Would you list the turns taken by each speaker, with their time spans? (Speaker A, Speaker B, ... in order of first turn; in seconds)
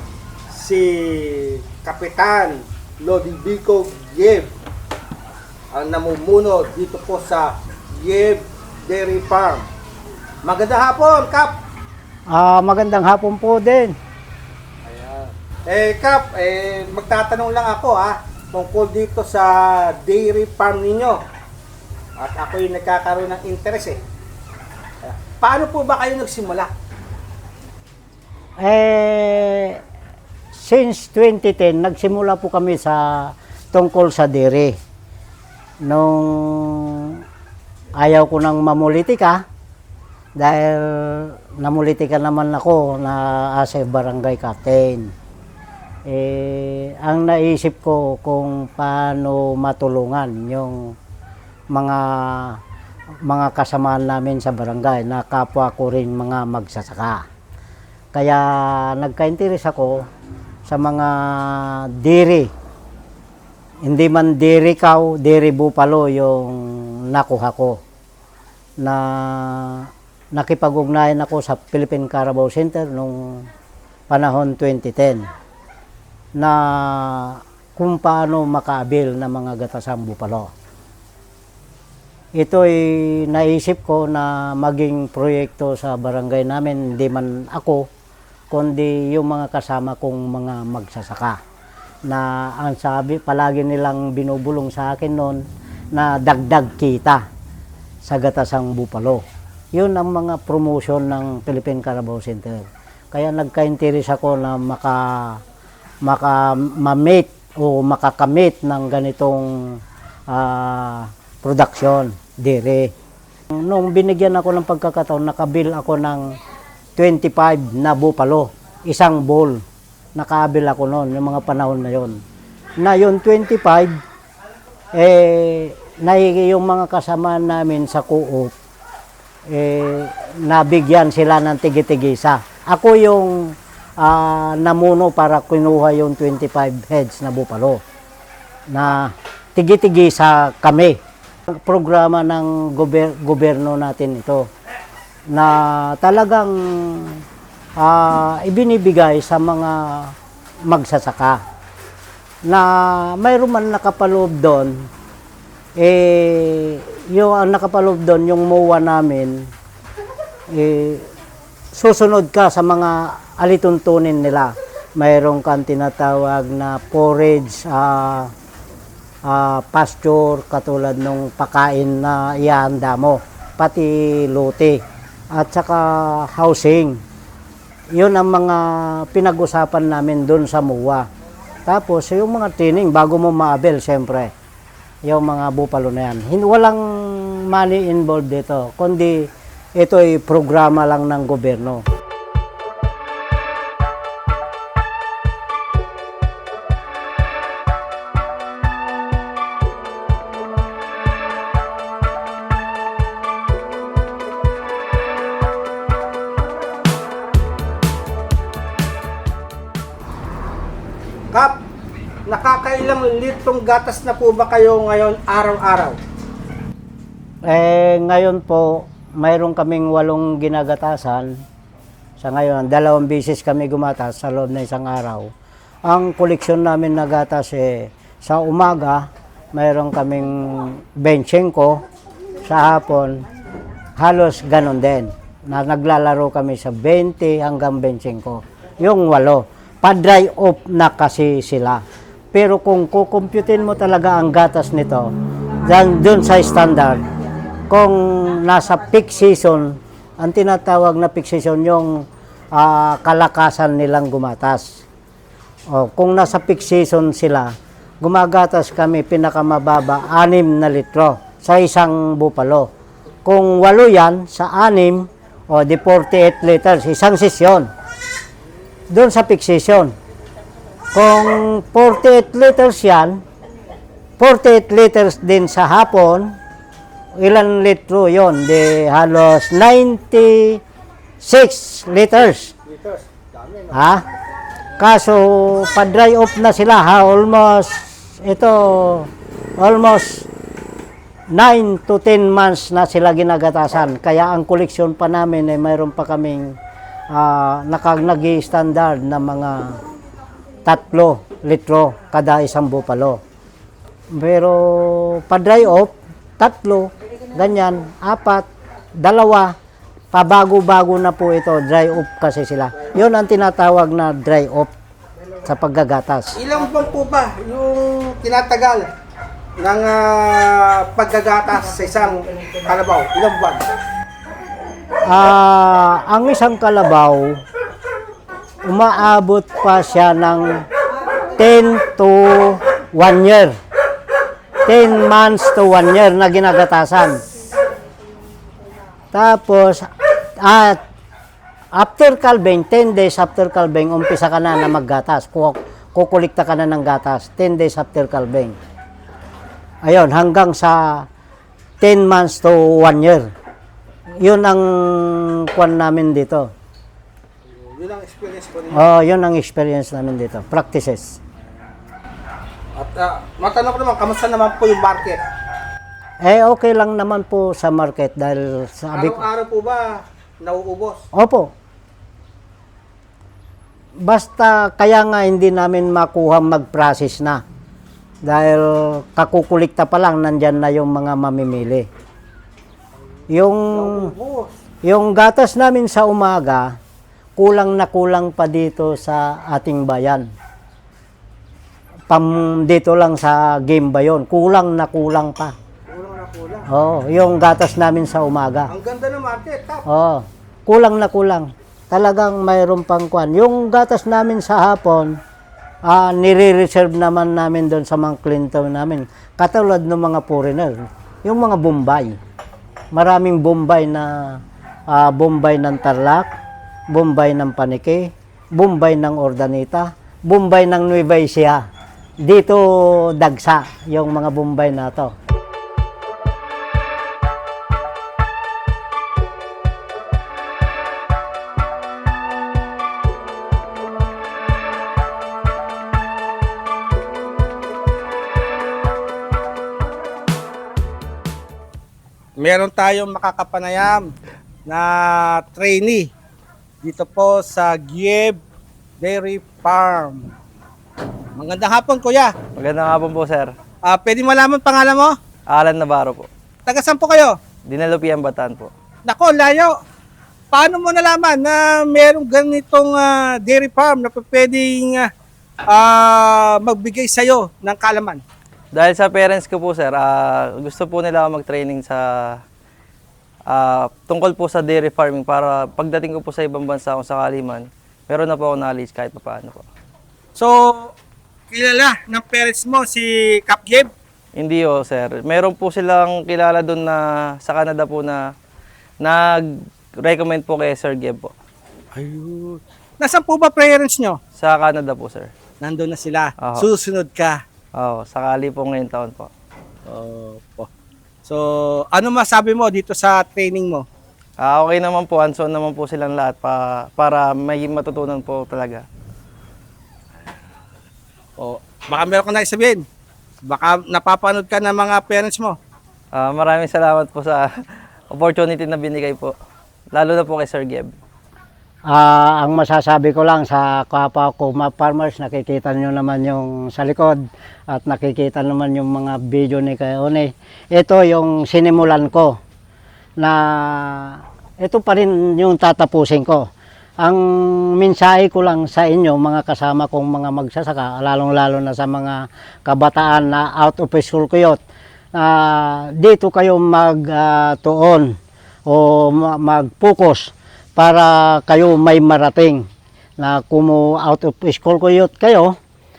Speaker A: 0.5-4.5, 5.7-9.7, 10.4-11.6, 14.8-21.2, 22.2-24.0, 25.0-26.7, 212.3-216.0, 282.7-283.8, 316.4-318.9, 319.6-323.6, 357.5-358.9, 362.7-365.2, 368.9-371.0, 383.7-384.5, 395.9-396.7, 398.7-399.9, 442.4-444.1, 444.7-446.1, 446.8-448.4, 449.0-450.3, 451.4-452.4, 453.8-455.1, 456.7-457.4, 459.1-459.7, 460.5-465.1, 465.7-468.2, 480.4-480.9, 481.5-483.9, 491.9-494.2, 495.6-497.4, 499.9-500.7, 501.3-503.9, 511.4-512.8, 513.5-515.6
Speaker B: 12.3-14.0, 28.6-29.8, 30.5-34.8, 35.8-37.2, 38.0-39.4, 40.4-45.1, 46.1-51.0, 51.7-52.6, 53.2-57.3, 58.1-60.1, 60.7-62.5, 63.8-67.8, 68.8-73.5, 74.1-75.3, 76.4-80.5, 82.4-87.9, 88.5-91.4, 92.1-97.2, 98.0-105.4, 106.0-112.9, 113.5-116.4, 117.0-119.6, 120.2-122.2, 122.8-124.0, 124.9-128.5, 129.5-137.8, 138.7-144.5, 145.3-147.2, 147.8-151.4, 152.5-154.9, 155.8-159.5, 160.5-161.1, 161.7-168.3, 169.2-177.0, 177.9-181.1, 181.7-184.3, 185.0-191.8, 217.5-221.4, 222.2-225.3, 225.8-231.8, 232.4-233.2, 234.0-245.1, 245.6-247.1, 247.7-254.8, 255.7-262.7, 263.2-267.7, 268.9-269.9, 270.9-273.2, 274.2-276.4, 277.2-280.6, 281.2-282.5, 283.7-284.1, 284.8-290.3, 291.3-296.6, 297.1-299.8, 300.6-303.2, 304.1-309.6, 310.1-314.7, 315.4-316.4, 325.1-327.4, 328.6-330.7, 331.4-333.6, 334.6-337.2, 339.1-340.8, 341.7-348.6, 349.8-351.1, 351.8-353.3, 354.2-356.5, 358.7-361.2, 366.2-369.2, 371.1-371.5, 374.0-377.4, 378.2-381.9, 383.3-384.1, 384.8-386.8, 387.4-390.3, 392.1-395.6, 396.7-398.7, 399.9-405.2, 405.8-412.2, 412.9-416.3, 416.9-421.7, 422.2-425.1, 521.9-532.4, 533.2-536.5, 537.0-544.6, 545.1-552.7, 553.2-555.6
Speaker C: 452.6-453.5, 455.5-456.3, 457.7-458.7, 468.7-472.4, 473.5-479.6, 484.4-488.2, 489.0-489.4, 490.0-491.3, 494.4-495.3, 496.4-496.6, 497.8-499.3, 504.4-508.9, 516.1-517.5, 518.1-519.3, 519.9-520.9